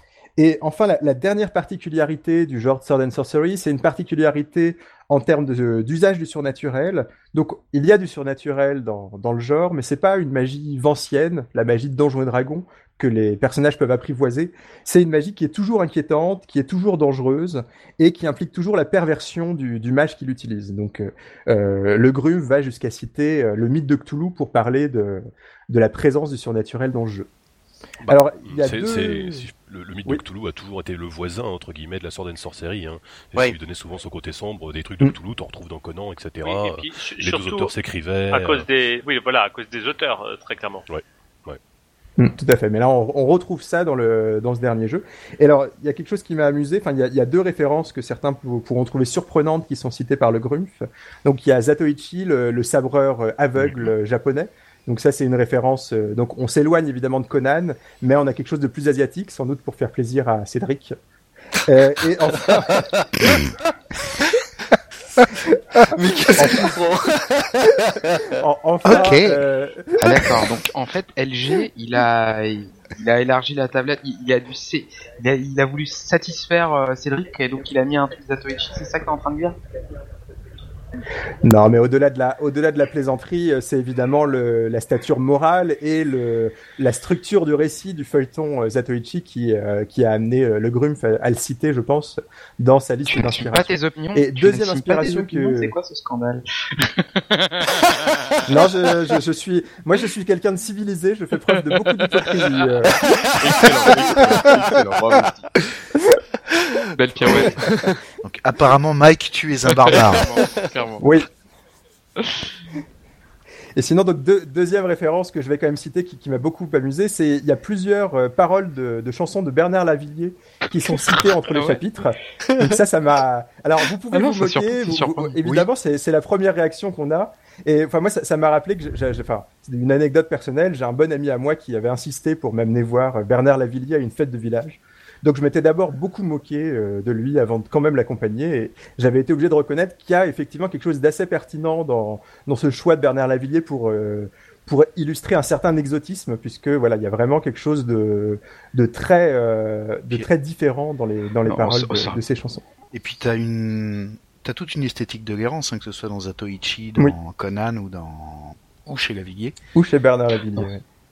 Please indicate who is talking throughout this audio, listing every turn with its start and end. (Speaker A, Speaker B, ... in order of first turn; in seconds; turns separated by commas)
Speaker A: 0.4-27.3, Speaker A: 28.1-29.5, Speaker B: 28.1-38.7, Speaker C: 36.4-37.7, Speaker C: 38.3-40.9, Speaker B: 40.9-41.6, Speaker A: 42.2-61.0, Speaker A: 61.6-63.3, Speaker D: 65.9-68.3, Speaker A: 66.4-66.7, Speaker A: 68.3-70.2, Speaker E: 68.8-69.4, Speaker F: 70.0-79.6, Speaker E: 70.2-70.4, Speaker A: 81.4-95.8, Speaker F: 93.1-98.7, Speaker A: 98.5-103.1, Speaker F: 103.2-105.6, Speaker F: 107.0-108.0, Speaker E: 108.2-110.4, Speaker F: 109.8-111.2, Speaker A: 111.0-111.3, Speaker F: 112.2-112.5, Speaker A: 113.8-152.6, Speaker F: 121.0-121.8, Speaker F: 124.1-125.4, Speaker F: 151.5-152.2, Speaker E: 152.9-159.6, Speaker A: 159.8-160.8